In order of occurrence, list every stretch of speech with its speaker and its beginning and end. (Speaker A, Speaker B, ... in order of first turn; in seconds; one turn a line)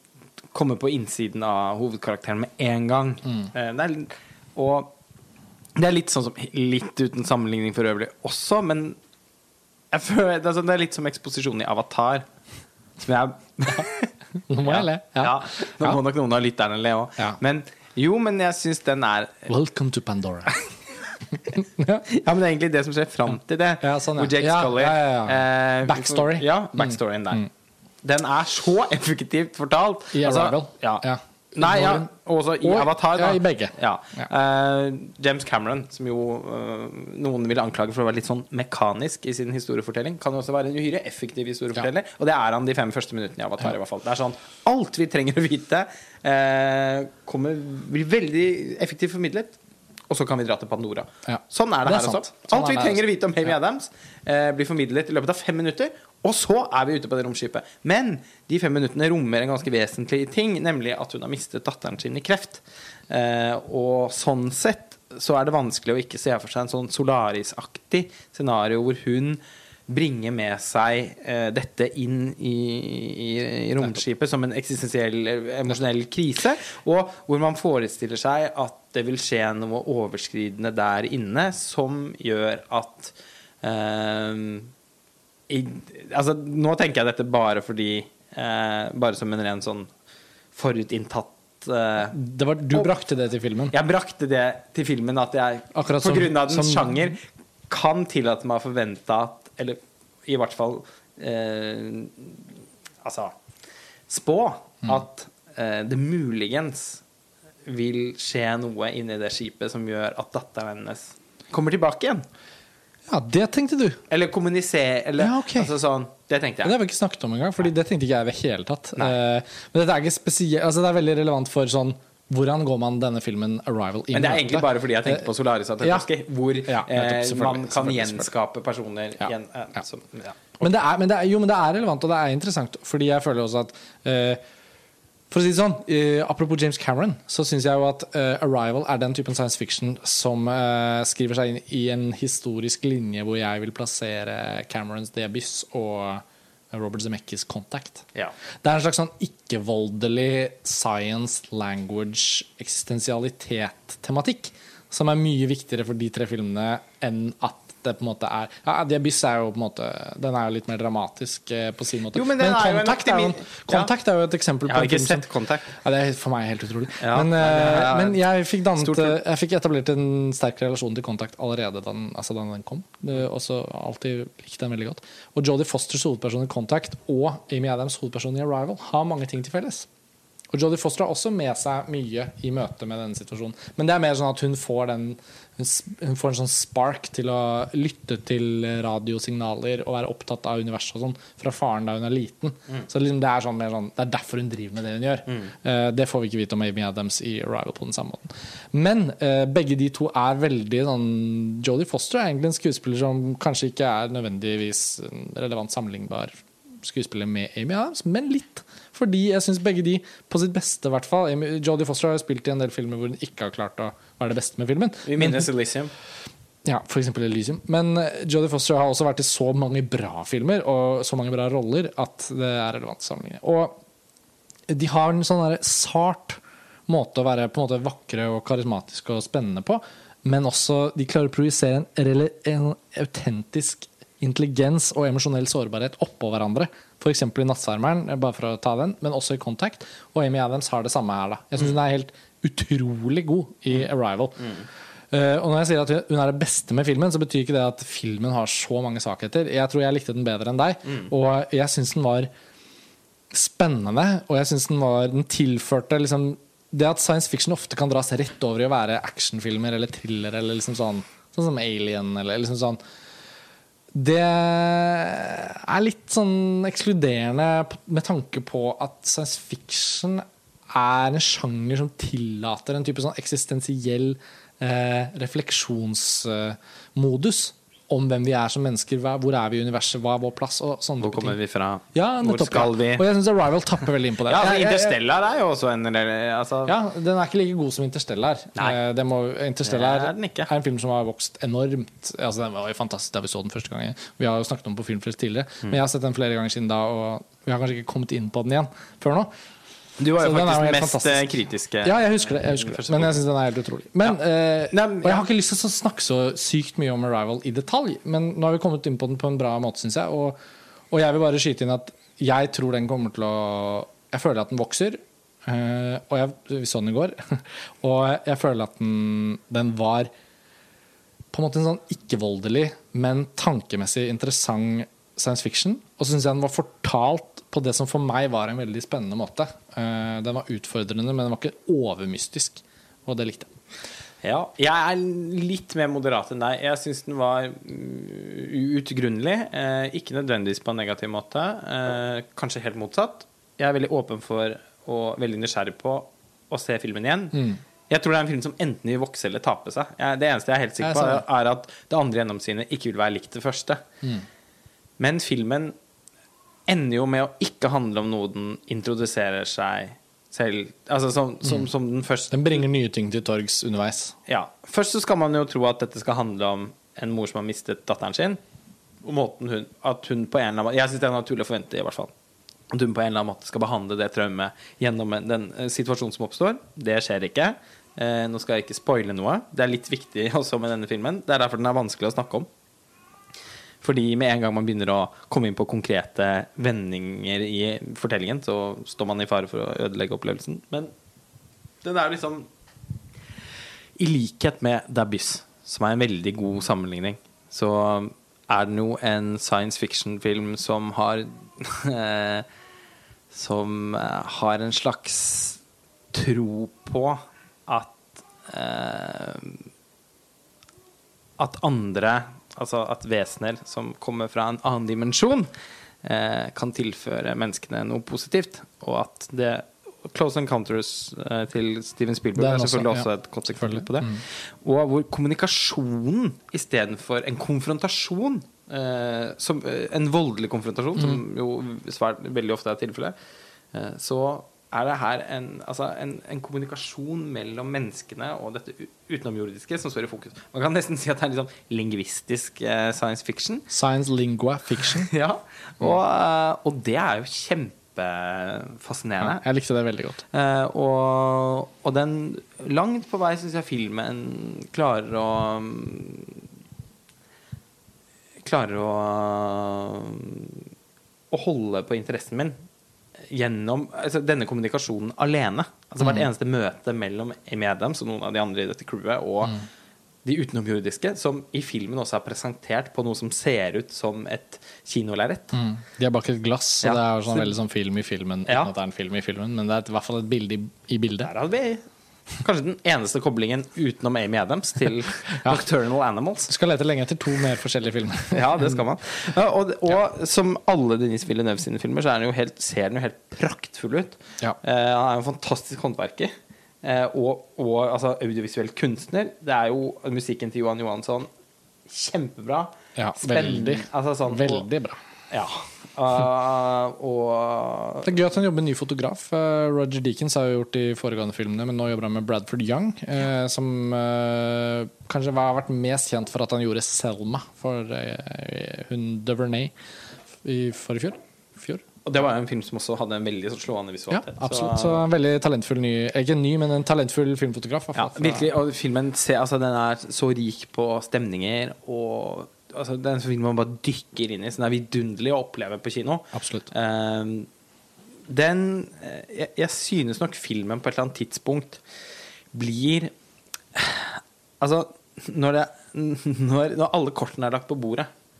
Speaker A: 0.5-4.9
Speaker A: 5.8-9.0
Speaker A: 9.9-12.2
Speaker A: 13.0-19.5
Speaker B: 14.5-16.0
Speaker B: 19.5-20.6
Speaker B: 21.4-22.1
Speaker A: 22.1-27.5
Speaker B: 23.8-27.4
Speaker A: 28.0-49.6
Speaker B: 30.1-32.1
Speaker B: 32.6-34.3
Speaker A: 50.1-84.7
Speaker B: 51.3-53.0
Speaker A: 85.5-89.9
Speaker A: 90.5-92.2
Speaker B: 92.1-93.7
Speaker A: 93.7-102.4
Speaker B: 95.7-97.1
Speaker A: 103.0-103.3
Speaker A: 104.1-107.0
Speaker A: 107.7-112.2
Speaker B: 113.1-114.0
Speaker A: 114.1-116.7
Speaker B: 115.2-115.7
Speaker B: 116.6-125.2
Speaker A: 124.1-130.7
Speaker B: 126.7-128.3
Speaker B: 130.6-134.4
Speaker B: 135.3-148.1
Speaker B: 148.6-179.9
Speaker A: 162.1-163.9
Speaker A: 164.7-165.8
Speaker A: 167.0-168.2
Speaker A: 168.8-169.2
Speaker B: 180.5-215.4
Speaker A: 215.0-215.9
Speaker B: 216.6-223.8
Speaker B: 224.7-244.6
Speaker B: 245.1-252.3
Speaker B: 253.3-262.8
Speaker B: 263.9-281.3
Speaker A: 281.0-283.0
Speaker B: 281.9-285.0
Speaker A: 284.2-286.7
Speaker B: 286.6-299.3
Speaker A: 289.6-290.5
Speaker A: 300.0-303.2
Speaker B: 300.2-301.3
Speaker B: 301.8-310.4
Speaker A: 304.7-305.2
Speaker B: 310.9-320.1
Speaker B: 321.3-333.5
Speaker A: 334.2-353.8
Speaker B: 347.3-347.6
Speaker B: 350.8-351.2
Speaker A: 355.0-355.7
Speaker A: 356.7-362.6
Speaker B: 362.3-364.1
Speaker A: 364.3-368.4
Speaker A: 369.0-372.1
Speaker A: 372.7-382.5
Speaker A: 383.8-390.9
Speaker A: 391.8-392.5
Speaker A: 394.0-402.4
Speaker A: 403.3-405.6
Speaker A: 406.1-409.6
Speaker A: 411.4-415.5
Speaker A: 416.0-433.1
Speaker B: 422.4-424.2
Speaker A: 433.7-443.7
Speaker B: 443.7-445.1
Speaker A: 444.8-449.4
Speaker B: 449.2-450.2
Speaker A: 450.3-456.4
Speaker A: 458.4-460.7
Speaker A: 461.3-462.5
Speaker A: 463.3-469.6
Speaker B: 466.0-466.3
Speaker A: 470.2-475.6
Speaker B: 475.5-481.3
Speaker A: 476.8-477.5
Speaker A: 478.5-478.7
Speaker A: 481.2-481.8
Speaker A: 482.4-486.5
Speaker B: 486.5-488.8
Speaker A: 488.3-501.3
Speaker A: 501.9-504.7
Speaker B: 503.0-505.0
Speaker A: 505.3-508.1
Speaker B: 508.0-519.7
Speaker B: 520.4-521.8
Speaker A: 522.0-525.0
Speaker B: 524.1-528.5
Speaker A: 527.9-537.5
Speaker B: 536.3-536.7
Speaker A: 538.3-541.8
Speaker A: 542.5-543.1
Speaker A: 543.7-548.1